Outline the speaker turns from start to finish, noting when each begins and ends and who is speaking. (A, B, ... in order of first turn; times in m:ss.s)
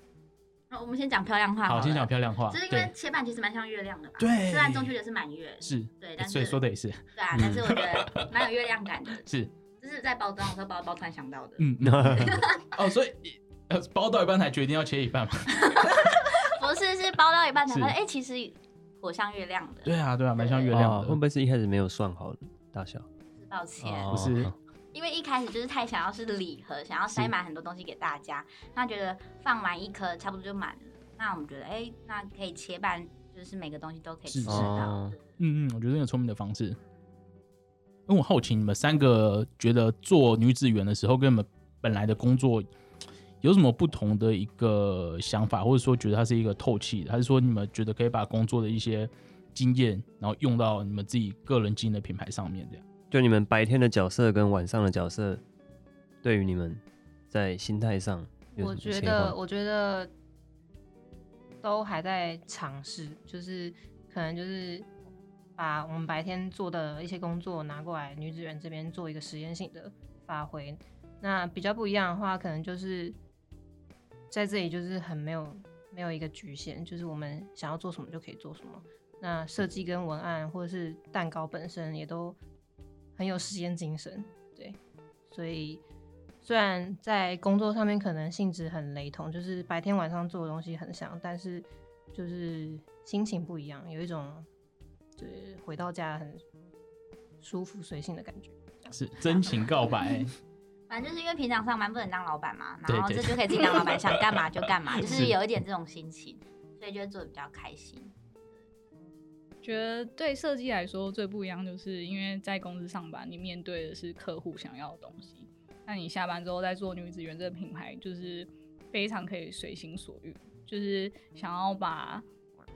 0:00.7-0:06.6 A
0:01.6-0:02.9 B
0:04.2-0:04.9 B
0:05.6-0:08.3 B
0:07.2-0:11.6 A
0:09.2-0:09.5 B
0:11.6-0:16.1 B
0:11.8-0:12.5 C
0:12.2-0:12.6 A
0:15.5-0:20.8 A
0:17.6-0:18.0 B
0:19.8-0:21.2 B
0:20.7-0:23.1 C
0:23.4-0:24.1 A
0:23.8-0:24.5 C
0:24.1-0:24.5 B
0:24.9-0:35.3 A
0:34.2-0:36.8 B
0:34.4-0:35.2 C
0:38.1-0:42.7 B
0:43.4-0:52.8 B
0:53.1-0:55.4 C
0:56.2-0:59.4 C
0:58.6-1:00.1 D
1:01.6-1:04.9 D
1:05.6-1:13.2 D
1:14.3-1:22.4 D
1:23.2-1:24.8 D
1:25.3-1:25.8 D
1:26.4-1:34.5 D
1:35.2-1:36.4 D
1:37.4-1:38.9 D
1:38.9-1:40.3 B
1:40.9-1:48.1 A
1:42.8-1:45.4 B
1:49.6-2:02.2 E